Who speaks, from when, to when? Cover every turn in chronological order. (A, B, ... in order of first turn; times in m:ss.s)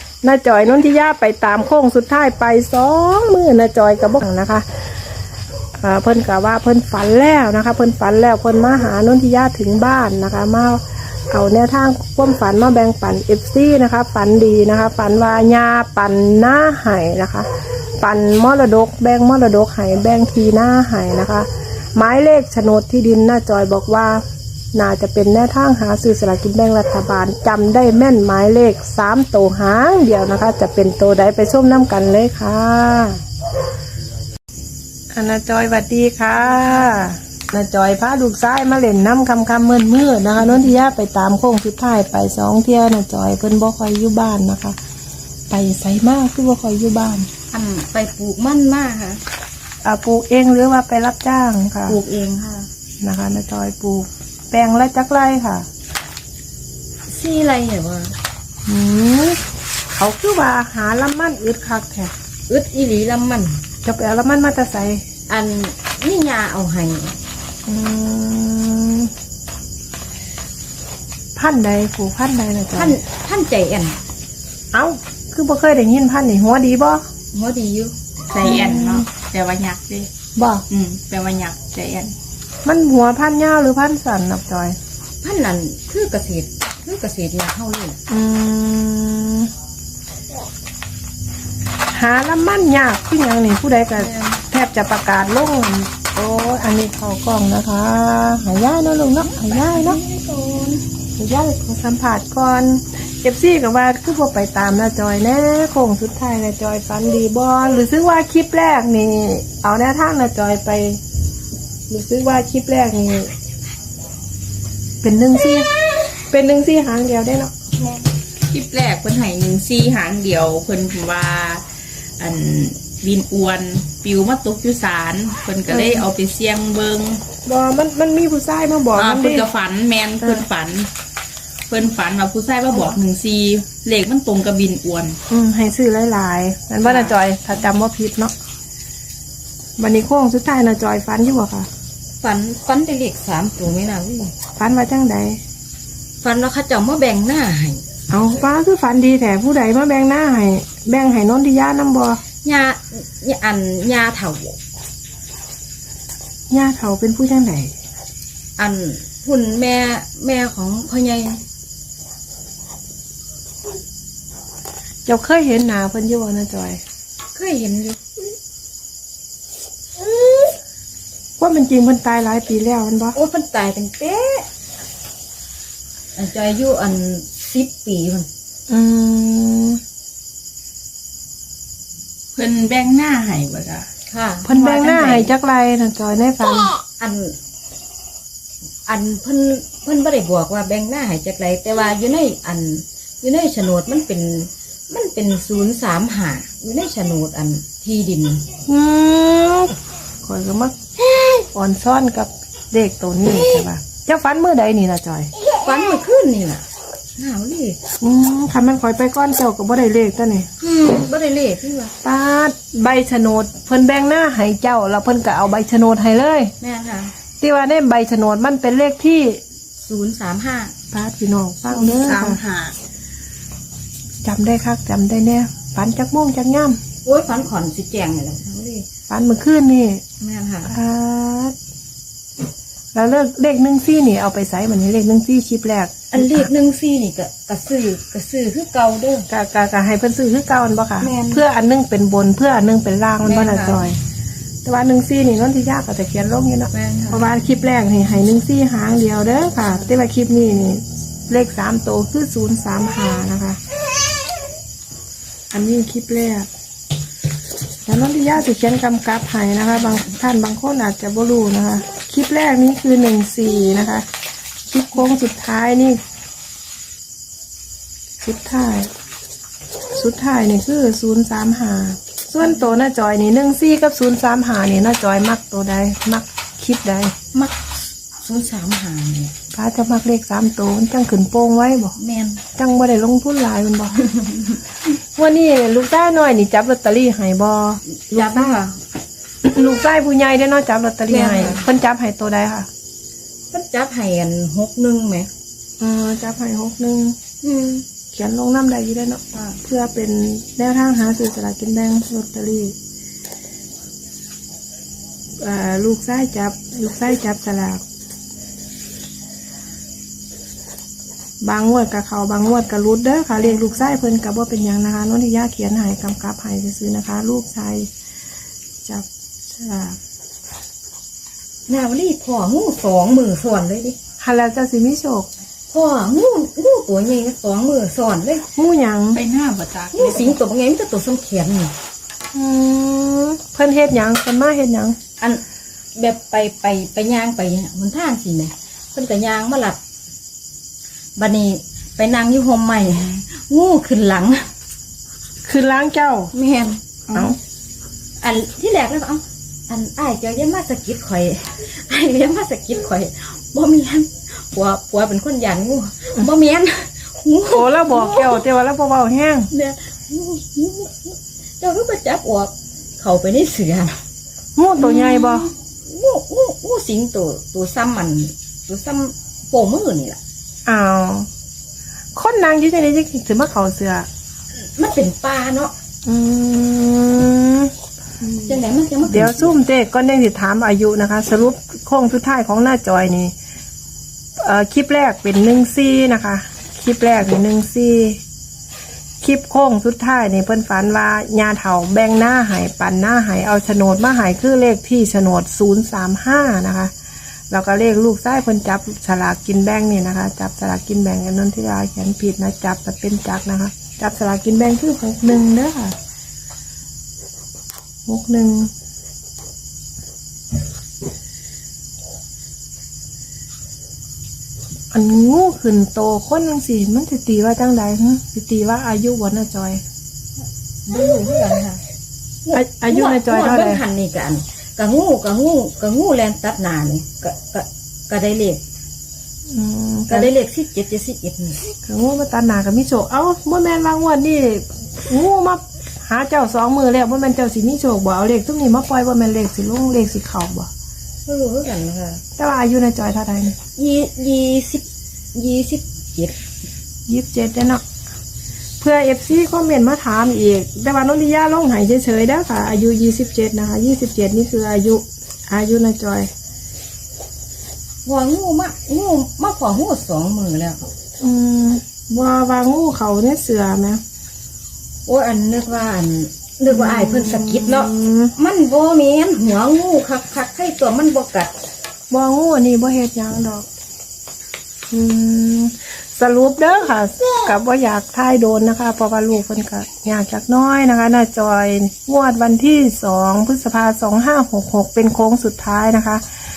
0:00.2-0:04.6 A
0:05.8-0:24.2 A
0:24.7-0:33.2 A
0:35.1-0:44.8 A
0:36.5-0:37.0 B
0:40.4-0:40.7 B
0:45.5-0:47.3 A
0:47.5-0:49.2 B
0:49.8-0:52.0 A
0:51.9-0:52.7 B
0:53.0-0:55.7 A
0:57.1-0:58.1 B
0:58.6-1:02.1 A
1:02.5-1:03.6 B
1:03.8-1:05.0 A
1:05.3-1:07.2 B
1:07.6-1:09.1 A
1:11.4-1:13.0 A
1:12.7-1:14.0 B
1:14.7-1:17.0 A
1:17.3-1:19.0 B
1:18.3-1:20.1 C
1:18.4-1:19.1 A
1:20.4-1:20.6 A
1:20.7-1:22.2 C
1:22.6-1:24.8 A
1:25.2-1:28.0 B
1:28.1-1:29.5 A
1:31.9-1:40.0 A
1:34.0-1:34.4 B
1:39.2-1:40.8 B
1:41.2-1:51.0 A
1:51.9-1:53.3 A
1:55.0-1:57.5 A
1:58.5-2:01.6 C
2:02.2-2:07.2 C
2:05.7-2:06.1 A
2:07.4-2:09.5 A
2:08.9-2:10.9 C
2:11.7-2:15.2 C
2:15.3-2:18.3 A
2:16.8-2:17.1 B
2:19.8-2:21.7 A
2:22.2-2:24.3 B
2:24.6-2:25.4 A
2:26.2-2:27.8 B
2:28.1-2:32.2 A
2:32.4-2:34.6 B
2:36.5-2:37.7 A
2:38.6-2:41.4 B
2:45.0-2:46.8 A
2:47.3-2:48.0 B
2:50.1-2:50.5 A
2:51.4-2:53.2 A
2:53.1-2:54.4 B
2:56.2-2:58.3 B
2:58.7-2:59.8 A
3:02.3-3:03.9 C
3:04.1-3:05.3 B
3:04.4-3:06.8 A
3:07.0-3:07.4 B
3:08.9-3:18.4 B
3:18.7-3:20.7 A
3:21.5-3:25.3 A
3:25.5-3:26.6 B
3:27.2-3:27.8 B
3:28.0-3:30.5 A
3:30.6-3:31.9 B
3:32.0-3:36.5 A
3:36.6-3:37.1 B
3:37.4-3:39.4 A
3:39.8-3:40.7 B
3:40.9-3:42.4 A
3:41.7-3:42.8 C
3:44.2-3:46.8 A
3:47.0-3:48.8 B
3:49.1-3:50.0 A
3:50.2-3:50.7 B
3:50.7-3:51.5 A
3:52.9-3:56.5 A
3:56.1-3:59.3 B
3:59.3-4:04.0 A
4:01.0-4:01.4 B
4:03.2-4:03.9 B
4:04.6-4:13.6 A
4:06.7-4:07.2 B
4:15.5-4:16.5 A
4:17.8-4:24.0 A
4:24.6-4:26.0 A
4:28.2-4:28.9 A
4:29.9-4:37.1 A
4:37.3-4:39.3 B
4:39.5-4:42.0 A
4:42.0-4:42.4 B
4:42.5-4:44.1 A
4:44.1-4:44.6 B
4:44.9-4:48.5 A
4:48.1-4:48.8 B
4:49.4-4:52.7 A
4:51.1-4:51.6 B
4:53.5-4:55.3 B
4:55.8-4:57.2 A
4:57.4-4:57.8 B
4:58.1-5:02.8 A
4:59.3-4:59.6 B
5:05.4-5:07.8 A
5:11.4-5:17.9 A
5:18.8-5:20.0 A
5:21.7-5:24.0 B
5:24.2-5:25.3 A
5:25.7-5:28.4 B
5:28.6-5:29.2 A
5:29.1-5:30.4 C
5:29.9-5:31.7 B
5:32.3-5:35.0 A
5:36.0-5:39.8 B
5:41.2-5:44.4 B
5:45.4-5:46.3 A
5:46.3-5:47.4 B
5:48.2-5:58.4 B
5:57.5-5:59.5 A
5:59.5-6:03.9 B
6:04.6-6:05.5 A
6:04.8-6:10.2 B
6:10.6-6:11.3 A
6:12.1-6:14.1 A
6:14.6-6:15.7 B
6:16.0-6:23.3 A
6:18.4-6:19.5 B
6:24.4-6:28.2 A
6:29.2-6:36.9 A
6:37.5-6:45.9 A
6:48.1-6:48.7 A
6:54.9-6:59.8 A
7:00.9-7:01.8 B
7:02.4-7:08.6 B
7:02.5-7:03.8 A
7:09.5-7:10.3 A
7:10.1-7:11.6 B
7:11.8-7:20.7 A
7:21.2-7:22.2 B
7:22.4-7:23.5 A
7:23.8-7:24.8 B
7:25.3-7:26.4 B
7:27.1-7:27.8 A
7:28.8-7:36.3 A
7:38.0-7:40.8 B
7:41.2-7:44.0 A
7:45.1-7:51.5 B
7:46.7-7:48.3 A
7:52.1-7:53.7 A
7:54.9-8:06.2 A